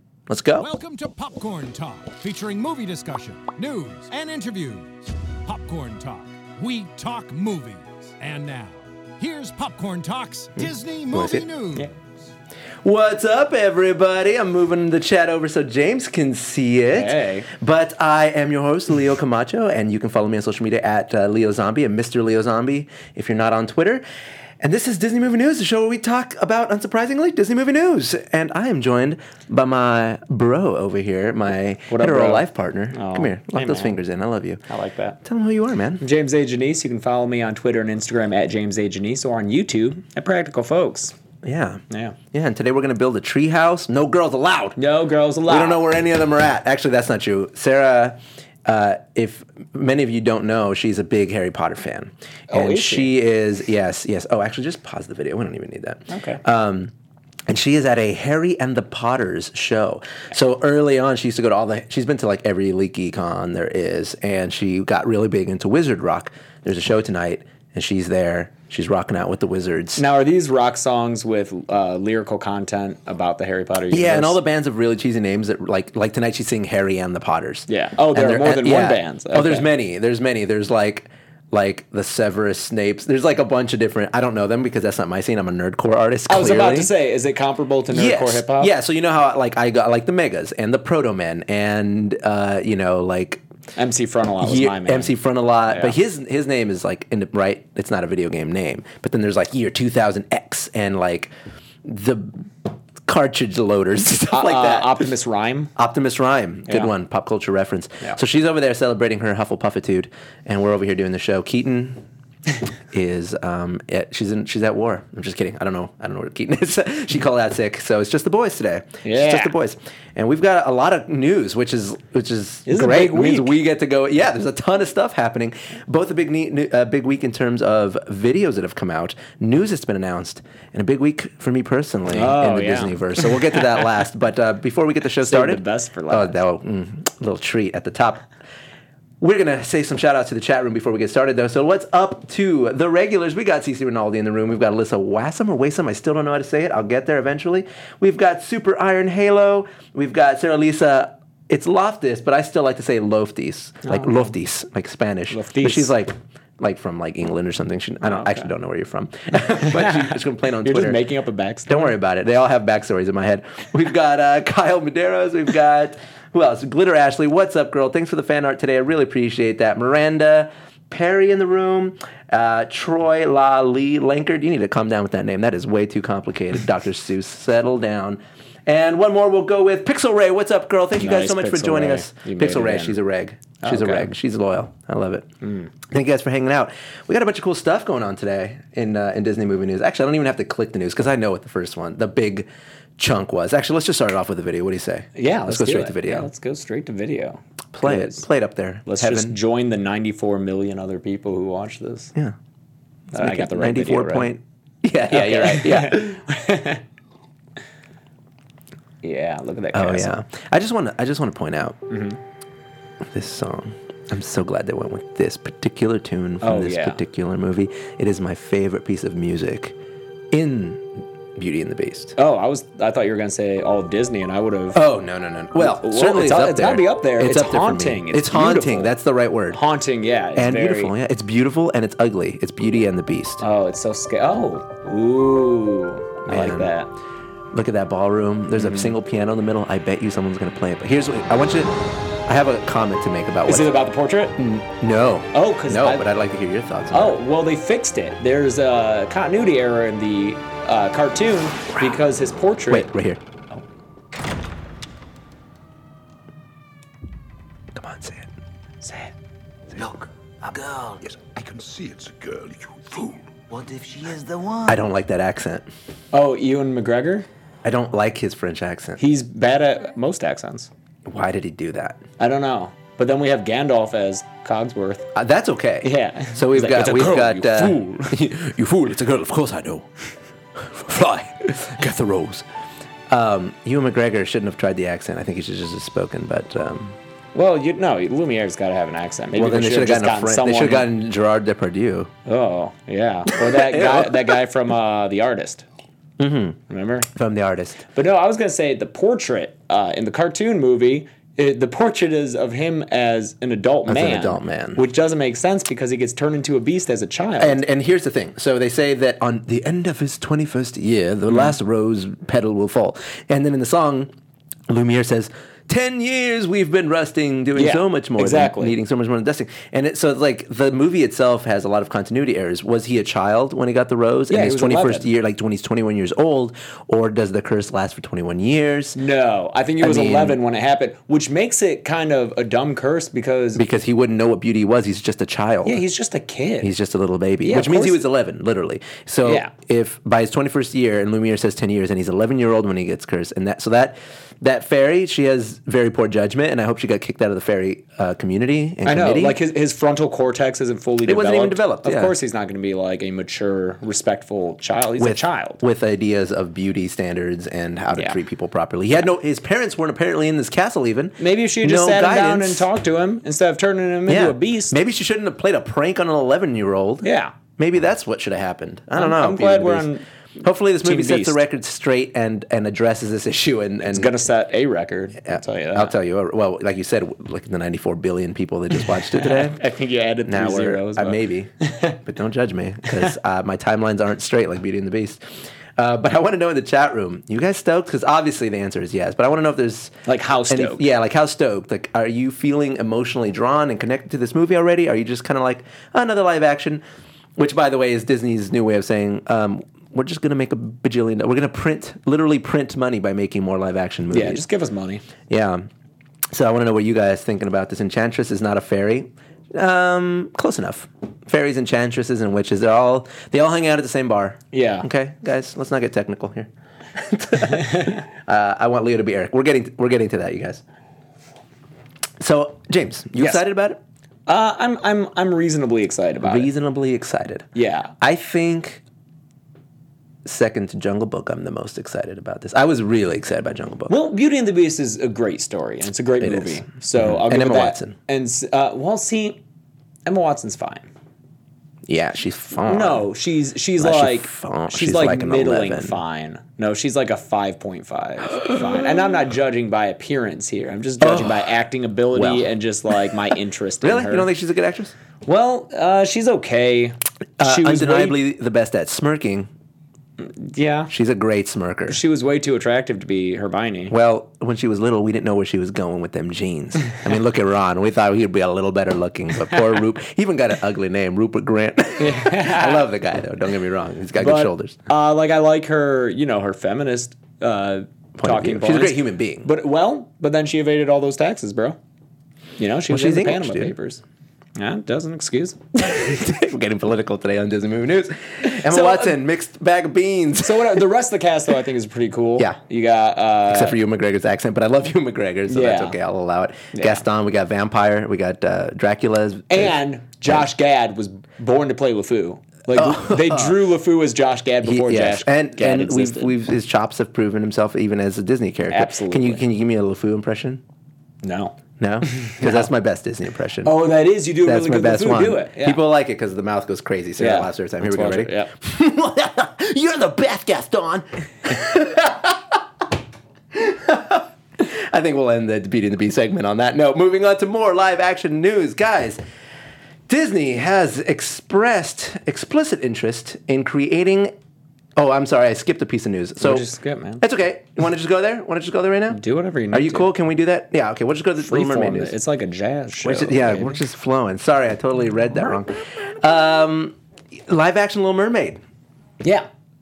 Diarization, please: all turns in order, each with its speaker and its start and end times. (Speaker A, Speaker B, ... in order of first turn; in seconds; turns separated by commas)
Speaker A: 0.3-0.7, Speaker B: 0.6-11.9, Speaker A: 10.6-11.4, Speaker A: 12.8-24.1, Speaker C: 16.9-17.5, Speaker A: 24.6-34.6, Speaker C: 31.9-34.0, Speaker C: 34.7-35.2, Speaker A: 35.2-36.0, Speaker C: 36.0-41.1, Speaker A: 41.4-44.8, Speaker C: 41.9-42.2, Speaker C: 44.8-45.8, Speaker A: 45.5-56.9, Speaker C: 52.5-53.1, Speaker C: 56.1-56.4, Speaker A: 57.5-70.0, Speaker C: 70.0-74.4, Speaker A: 73.9-86.9, Speaker C: 77.7-79.7, Speaker C: 86.3-88.7, Speaker A: 87.9-93.4, Speaker C: 93.8-95.2, Speaker A: 94.4-101.3, Speaker C: 95.7-96.0, Speaker A: 101.8-102.5, Speaker A: 103.0-105.1, Speaker C: 104.3-105.7, Speaker A: 105.8-112.0, Speaker A: 112.9-138.2, Speaker C: 119.0-119.5, Speaker C: 122.7-123.6, Speaker C: 132.1-133.8, Speaker C: 135.2-136.4, Speaker A: 139.2-161.0, Speaker C: 153.8-154.3, Speaker C: 155.3-155.9, Speaker C: 158.0-158.4, Speaker C: 159.6-161.9, Speaker A: 161.7-185.3, Speaker C: 181.0-183.0, Speaker C: 183.6-184.1, Speaker C: 185.4-185.7, Speaker A: 185.8-192.5, Speaker A: 193.0-196.3, Speaker C: 195.2-198.2, Speaker A: 197.7-199.3, Speaker C: 198.8-202.1, Speaker A: 203.1-206.2, Speaker C: 203.1-204.3, Speaker C: 205.1-206.8, Speaker C: 209.0-210.1, Speaker A: 209.7-211.8, Speaker C: 211.9-212.2, Speaker A: 213.1-219.7, Speaker C: 216.4-217.0, Speaker A: 220.3-222.2, Speaker C: 222.2-224.8, Speaker A: 224.7-229.6, Speaker C: 225.6-228.9, Speaker C: 229.5-230.9, Speaker A: 230.3-233.4, Speaker C: 233.4-236.9, Speaker A: 236.3-236.7, Speaker A: 237.5-241.7, Speaker C: 238.6-238.9, Speaker A: 242.3-243.7, Speaker C: 243.5-244.4, Speaker A: 244.4-247.2, Speaker C: 245.3-246.0, Speaker C: 246.9-252.9, Speaker A: 252.7-253.2, Speaker A: 257.8-258.3, Speaker C: 258.8-259.1, Speaker D: 259.8-261.1, Speaker E: 261.1-263.3, Speaker D: 263.5-264.8, Speaker A: 264.7-265.7, Speaker C: 266.1-267.3, Speaker A: 267.6-269.0, Speaker C: 269.0-270.7, Speaker A: 271.1-272.0, Speaker C: 272.2-275.1, Speaker A: 275.1-279.9, Speaker C: 275.8-278.1, Speaker A: 280.6-282.4, Speaker A: 283.1-287.0, Speaker C: 287.4-290.9, Speaker A: 289.4-292.1, Speaker C: 292.2-295.6, Speaker A: 293.3-294.4, Speaker A: 296.2-296.6, Speaker C: 296.7-297.1, Speaker A: 297.2-297.8, Speaker C: 297.9-307.6, Speaker A: 303.9-304.8, Speaker A: 307.4-314.1, Speaker C: 311.3-311.6, Speaker A: 314.7-329.0, Speaker C: 317.6-318.8, Speaker C: 324.3-325.1, Speaker C: 329.0-333.6, Speaker A: 329.8-330.4, Speaker A: 333.6-335.8, Speaker C: 335.6-336.7, Speaker A: 336.6-349.4, Speaker C: 337.4-338.0, Speaker C: 339.2-339.5, Speaker C: 348.9-355.6, Speaker A: 351.1-352.1, Speaker A: 355.0-362.7, Speaker C: 361.2-364.8, Speaker A: 364.1-374.1, Speaker C: 367.0-367.3, Speaker C: 368.9-370.1, Speaker C: 370.8-371.4, Speaker C: 373.8-375.9, Speaker A: 375.2-379.6, Speaker C: 379.1-382.0, Speaker A: 380.2-385.2, Speaker A: 385.8-390.0, Speaker C: 390.1-390.9, Speaker A: 390.5-396.8, Speaker A: 397.4-404.4, Speaker C: 404.1-405.0, Speaker A: 405.3-405.7, Speaker A: 406.3-420.6, Speaker C: 414.5-414.9, Speaker C: 417.6-418.0, Speaker A: 422.2-423.8, Speaker C: 423.2-423.4, Speaker C: 424.3-426.5, Speaker A: 426.2-427.5, Speaker C: 427.6-427.9, Speaker A: 428.0-428.8, Speaker A: 430.2-433.9, Speaker C: 433.9-439.4, Speaker A: 436.2-438.0, Speaker C: 440.1-440.9, Speaker A: 441.9-443.1, Speaker C: 442.7-454.3, Speaker A: 443.8-446.0, Speaker A: 451.0-451.5, Speaker A: 452.1-452.5, Speaker A: 453.8-454.9, Speaker C: 455.2-458.2, Speaker A: 457.4-459.5, Speaker C: 460.2-460.9, Speaker A: 460.9-462.0, Speaker C: 461.9-463.9, Speaker A: 463.9-474.8, Speaker C: 472.0-472.9, Speaker C: 474.2-481.8, Speaker A: 478.2-479.5, Speaker C: 482.6-484.0, Speaker A: 482.9-483.8, Speaker C: 484.6-485.6, Speaker A: 485.8-490.9, Speaker C: 488.4-489.2, Speaker C: 490.4-493.8, Speaker A: 493.5-499.8, Speaker C: 495.5-496.0, Speaker C: 496.8-497.0, Speaker C: 499.5-506.4, Speaker A: 502.7-503.6, Speaker A: 504.6-510.6, Speaker C: 508.7-509.4, Speaker C: 511.2-512.7, Speaker A: 511.8-513.8, Speaker C: 513.6-515.8, Speaker A: 514.5-522.6, Speaker C: 517.2-518.5, Speaker A: 523.5-529.2, Speaker A: 530.1-534.3, Speaker A: 535.0-536.6, Speaker C: 536.4-537.2, Speaker A: 537.2-542.1, Speaker C: 539.1-540.1, Speaker C: 541.4-543.8, Speaker A: 543.0-547.0, Speaker A: 547.5-548.6